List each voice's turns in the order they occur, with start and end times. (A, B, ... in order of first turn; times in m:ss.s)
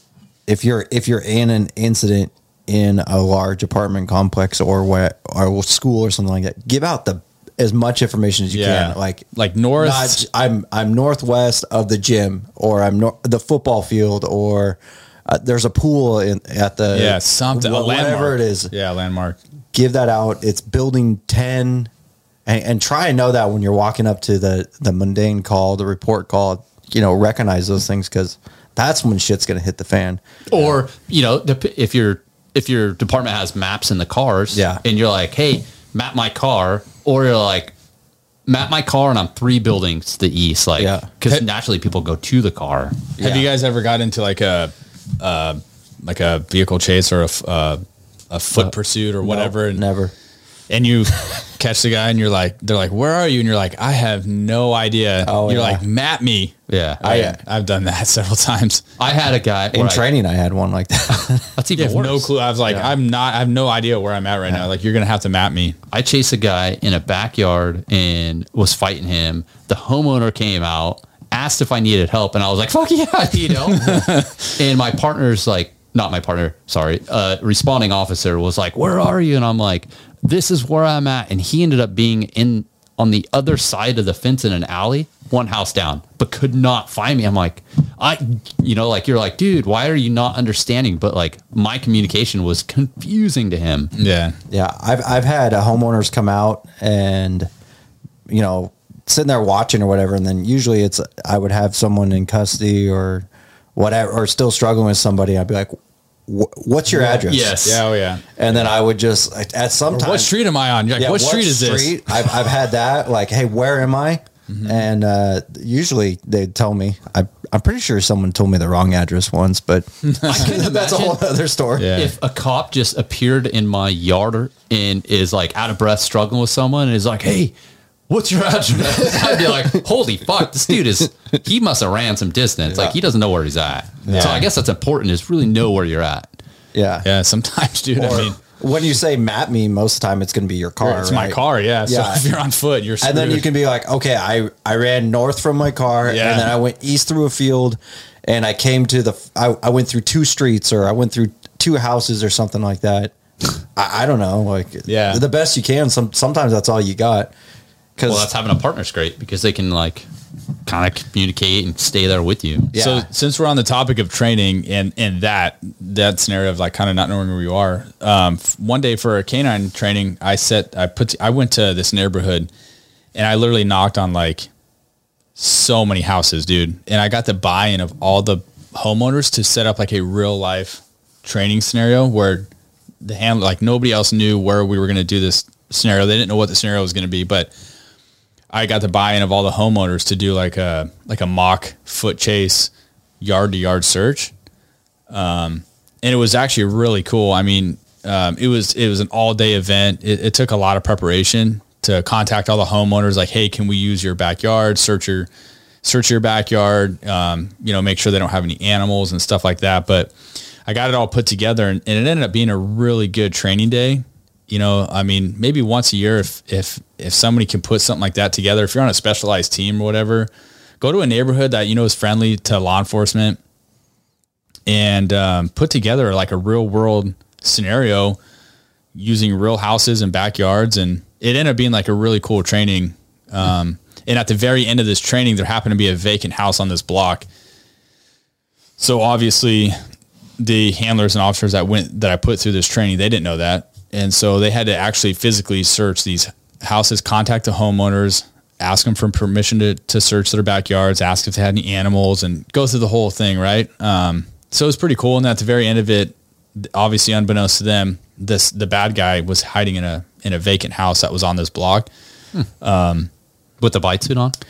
0:00.5-0:09.2 A
0:08.5-0:10.2 B
0:09.8-0:18.7 A
0:16.9-0:19.4 B
0:19.7-0:21.9 A
0:22.5-0:30.2 A
0:30.5-0:37.8 C
0:34.5-0:34.8 A
0:38.5-0:43.2 C
0:40.8-0:41.1 A
0:43.2-0:43.5 A
0:43.2-0:49.8 B
0:48.6-0:50.1 A
0:50.7-0:58.8 B
0:55.2-0:55.8 A
0:56.7-0:57.0 C
0:57.0-0:57.4 A
0:59.0-1:00.0 C
0:59.7-1:01.5 A
1:01.2-1:02.3 C
1:01.8-1:05.8 B
1:02.7-1:02.9 A
1:05.9-1:33.9 C
1:13.5-1:14.5 B
1:34.0-1:34.4 B
1:34.5-1:37.5 A
1:38.3-1:47.6 A
1:47.0-1:48.3 B
1:47.2-1:47.8 C
1:48.4-1:50.3 A
1:49.9-1:52.4 B
1:51.0-2:02.0 A
1:54.5-1:54.8 B
2:00.2-2:01.2 C
2:01.8-2:02.2 B
2:01.9-2:07.5 C
2:08.1-2:16.3 C
2:08.9-2:09.8 A
2:12.7-2:13.0 A
2:14.0-2:14.5 A
2:14.1-2:14.5 B
2:16.7-2:17.1 A
2:17.0-2:18.4 B
2:18.0-2:22.3 A
2:20.8-2:23.5 B
2:23.0-2:33.1 A
2:26.1-2:26.5 B
2:33.8-2:37.3 A
2:34.9-2:35.2 B
2:38.0-2:38.3 A
2:38.1-2:40.1 C
2:40.7-2:42.7 C
2:42.7-2:43.1 A
2:42.8-2:52.5 B
2:53.2-2:54.5 B
2:55.4-3:02.5 B
3:03.0-3:07.5 B
3:08.5-3:14.3 B
3:15.1-3:25.3 B
3:25.8-3:40.3 B
3:40.8-3:43.4 B
3:44.7-3:48.2 B
3:48.9-3:57.3 B
3:58.8-3:59.8 B
4:00.4-4:21.9 B
4:22.6-4:23.1 B
4:23.6-4:24.4 C